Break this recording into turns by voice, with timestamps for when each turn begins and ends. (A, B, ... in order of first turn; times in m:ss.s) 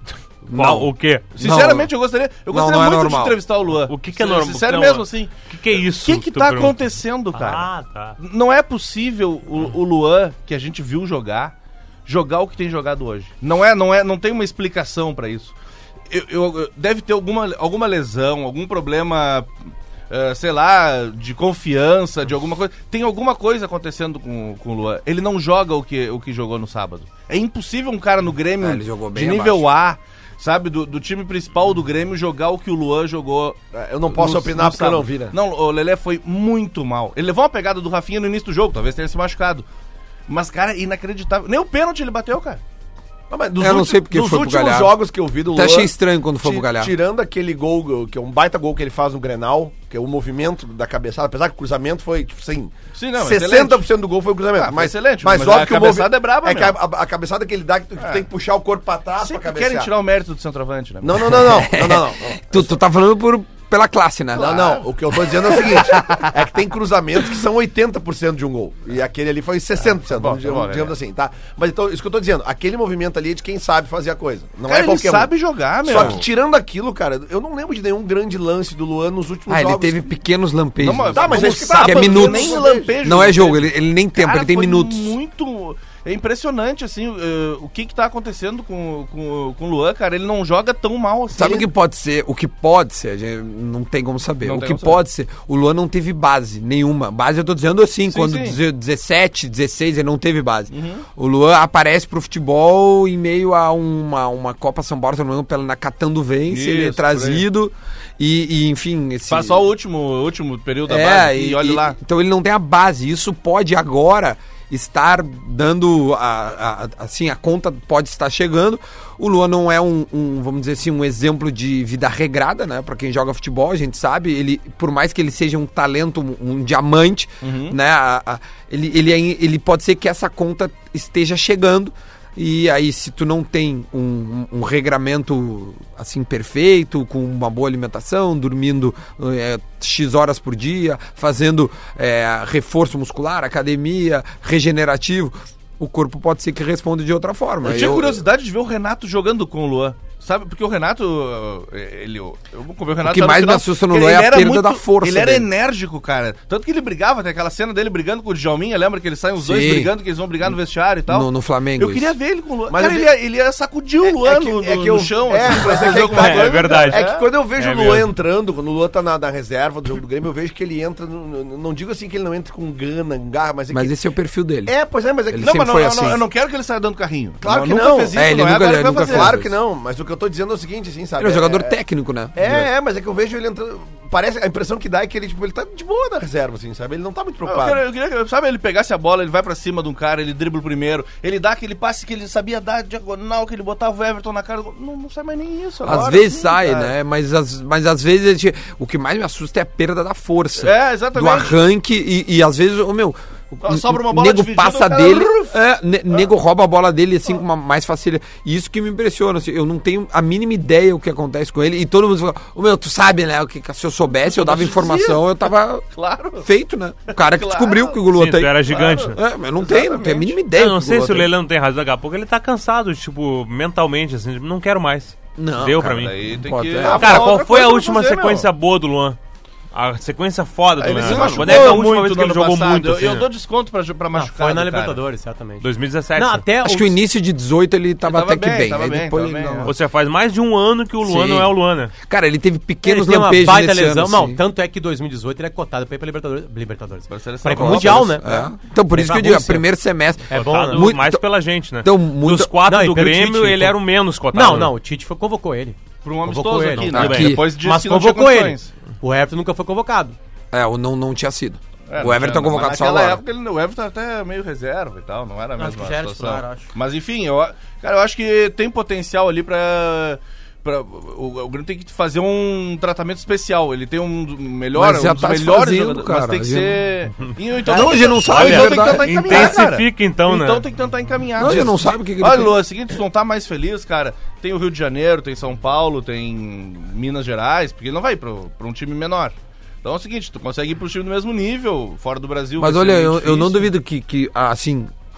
0:00.5-0:01.9 A
0:00.5-0:01.4 B
0:01.4-0:11.5 C
0:02.5-0:03.4 A
0:03.9-0:08.2 B
0:12.1-0:15.5 C
0:16.1-0:19.5 C
0:20.1-0:39.7 C
0:28.6-0:29.7 A
0:33.7-0:35.3 D
0:40.3-0:42.6 C
0:43.3-0:59.9 D
0:43.6-0:45.0 A
0:45.5-0:46.9 A
0:53.0-0:53.9 C
0:54.6-0:56.8 C
0:58.0-0:58.2 C
0:59.2-1:01.5 C
1:01.0-1:02.7 D
1:01.2-1:04.5 A
1:04.4-1:04.9 C
1:04.4-1:15.3 D
1:05.7-1:06.3 A
1:09.8-1:11.0 C
1:14.7-1:16.2 C
1:15.8-1:20.1 D
1:19.5-1:25.2 A
1:20.8-1:31.7 C
1:21.1-1:23.0 D
1:31.3-1:49.7 A
1:34.4-1:35.0 C
1:38.1-1:38.6 C
1:40.7-1:41.1 C
1:46.5-1:47.4 C
1:49.3-1:52.0 C
1:50.9-2:28.2 A
2:07.4-2:07.8 C
2:27.6-2:47.2 C
2:33.0-2:35.5 A
2:39.4-2:39.9 A
2:41.1-2:42.1 A
2:42.7-2:43.1 D
2:44.0-2:54.0 D
2:45.7-2:48.1 B
2:53.7-2:54.7 A
2:54.7-2:55.7 D
2:55.3-2:56.2 A
2:55.4-2:59.3 C
2:57.4-3:01.8 D
2:58.1-2:59.6 A
3:01.2-3:02.7 A
3:02.4-3:07.8 D
3:07.4-3:16.9 C
3:15.8-3:35.8 A
3:20.6-3:21.6 C
3:23.6-3:25.6 C
3:34.2-3:36.5 C
3:36.4-3:41.3 A
3:37.1-3:38.0 C
3:38.1-3:39.2 B
3:38.7-3:40.4 C
3:40.5-3:46.2 B
3:45.4-3:47.3 A
3:45.8-3:48.5 C
3:46.8-3:49.2 B
3:49.7-3:53.3 B
3:50.8-3:55.0 C
3:50.8-3:51.8 D
3:51.2-3:51.5 A
3:54.1-3:57.0 E
3:55.6-3:56.4 B
3:56.6-3:59.7 A
3:58.0-3:59.7 C
3:59.7-4:01.9 B
4:01.0-4:04.4 A
4:02.8-4:08.4 E
4:07.1-4:08.2 C
4:07.5-4:11.3 A
4:08.9-4:09.7 E
4:10.3-4:11.0 E
4:10.3-4:14.7 B
4:11.8-4:12.5 A
4:12.7-4:13.8 E
4:14.3-4:20.2 E
4:16.0-4:18.7 C
4:16.8-4:17.4 B
4:16.9-4:17.5 A
4:20.5-4:23.2 A
4:21.9-4:53.7 C
4:25.6-4:26.7 E
4:34.8-4:36.8 A
4:37.7-4:39.5 A
4:37.8-4:40.6 B
4:41.4-4:42.6 A
4:52.6-4:54.9 A